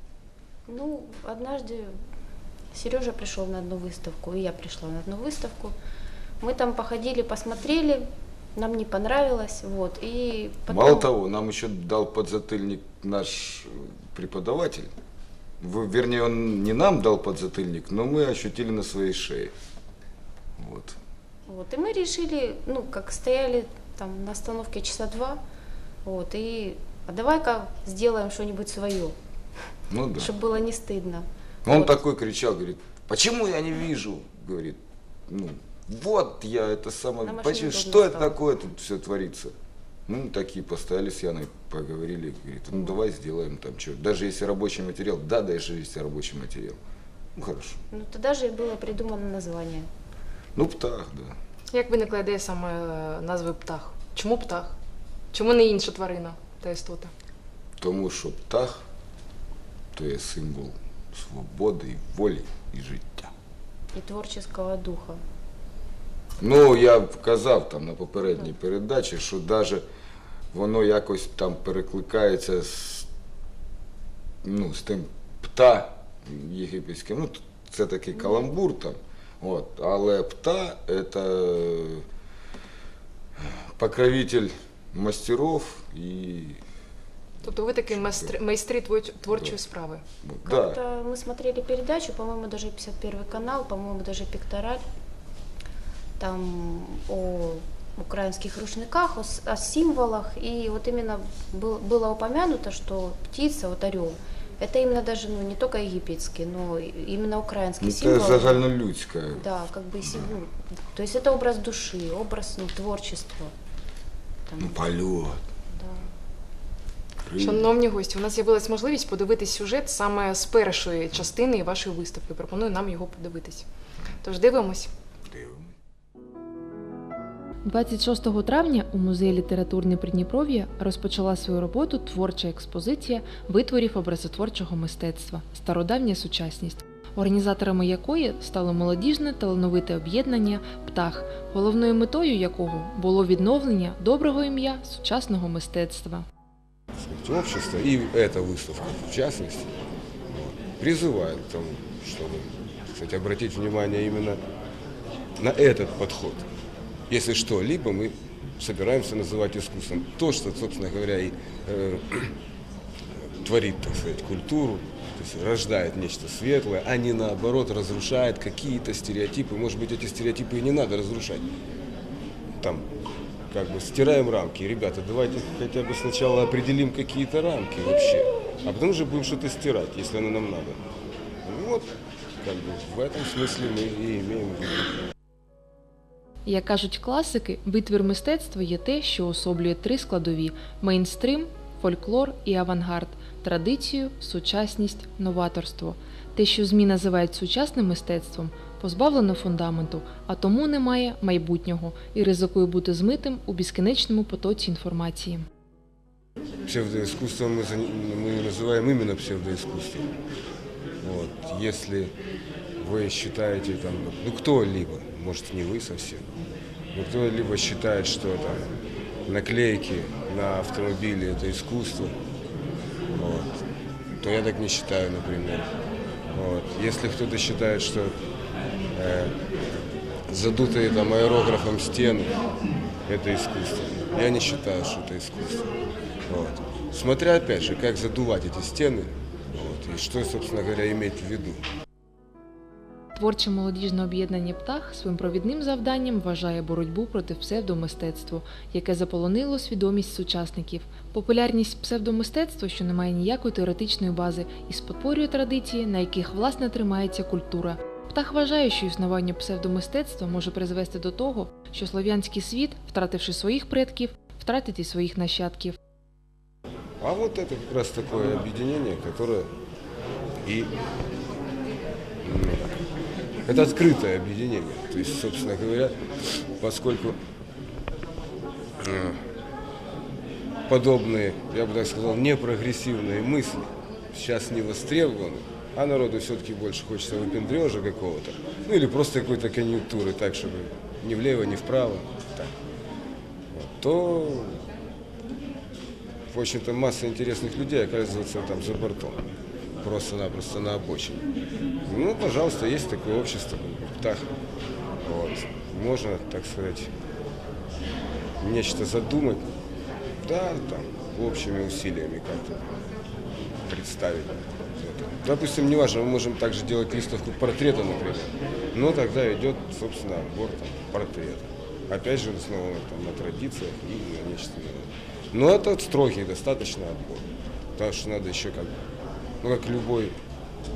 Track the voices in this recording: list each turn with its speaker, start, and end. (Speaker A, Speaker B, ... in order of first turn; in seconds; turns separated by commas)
Speaker A: 0.7-2.0, Speaker A: 2.7-5.7, Speaker A: 6.4-11.1, Speaker B: 10.7-14.9, Speaker B: 15.6-19.5, Speaker B: 20.6-21.0, Speaker A: 21.5-25.4, Speaker A: 26.0-29.1, Speaker B: 29.9-30.3, Speaker A: 30.1-32.0, Speaker B: 31.6-39.5, Speaker A: 37.2-38.4, Speaker B: 40.1-46.8, Speaker B: 47.3-47.8, Speaker A: 47.9-49.9, Speaker B: 50.5-51.4, Speaker C: 51.7-54.8, Speaker C: 55.3-57.1, Speaker B: 57.8-58.8, Speaker B: 59.9-63.3, Speaker A: 63.9-65.2, Speaker B: 66.4-69.8, Speaker B: 70.5-73.1, Speaker B: 74.4-82.0, Speaker B: 83.4-86.6, Speaker C: 87.4-90.0, Speaker B: 87.9-88.3, Speaker B: 90.2-90.8, Speaker A: 90.5-94.8, Speaker A: 96.2-108.6, Speaker B: 107.8-109.4, Speaker A: 109.3-113.5, Speaker B: 110.0-110.3, Speaker A: 114.5-114.8, Speaker B: 114.6-115.4, Speaker A: 115.8-116.1, Speaker B: 117.2-117.7, Speaker C: 117.4-123.7, Speaker C: 124.2-124.9, Speaker B: 125.3-125.7, Speaker D: 127.6-146.2, Speaker B: 147.1-149.6, Speaker B: 150.3-152.3, Speaker E: 150.5-152.4, Speaker B: 152.9-153.2, Speaker E: 153.0-154.4, Speaker E: 155.4-156.4, Speaker B: 155.9-156.3, Speaker E: 157.1-162.3, Speaker B: 157.8-158.1, Speaker E: 163.4-171.5, Speaker E: 173.5-180.8, Speaker E: 181.4-181.9, Speaker E: 182.4-184.8, Speaker D: 186.4-205.5, Speaker E: 206.7-210.0, Speaker B: 206.9-207.3, Speaker B: 208.5-209.9, Speaker E: 211.0-212.1, Speaker E: 212.8-216.2, Speaker E: 216.9-218.6, Speaker E: 219.3-222.1, Speaker E: 223.1-223.6, Speaker E: 224.2-225.7, Speaker E: 226.3-228.1, Speaker E: 228.9-229.3, Speaker E: 230.3-232.3, Speaker E: 233.1-235.7, Speaker B: 234.6-235.2, Speaker E: 236.3-241.6, Speaker B: 239.6-241.5, Speaker D: 243.2-265.8, Speaker E: 267.0-269.4, Speaker B: 267.0-268.0, Speaker B: 268.6-269.3, Speaker E: 272.2-272.7, Speaker E: 273.4-275.9, Speaker B: 274.1-275.9, Speaker E: 276.6-277.1, Speaker B: 276.8-277.1, Speaker E: 278.8-279.1, Speaker E: 280.7-292.3, Speaker B: 281.4-282.9, Speaker B: 284.1-292.4, Speaker E: 293.6-294.2, Speaker B: 293.8-294.4, Speaker B: 296.3-298.9, Speaker E: 296.3-299.2, Speaker B: 299.8-301.1, Speaker E: 299.8-301.2, Speaker E: 301.9-304.2, Speaker B: 302.1-304.0, Speaker E: 305.1-306.9, Speaker B: 306.2-306.7, Speaker E: 308.4-309.4, Speaker B: 309.0-309.4, Speaker E: 310.3-312.6, Speaker E: 313.7-327.2, Speaker B: 315.1-316.0, Speaker B: 319.1-321.4, Speaker B: 322.0-323.6, Speaker B: 324.2-324.6, Speaker B: 325.6-326.8, Speaker E: 327.8-328.7, Speaker E: 329.4-330.1, Speaker B: 329.4-330.0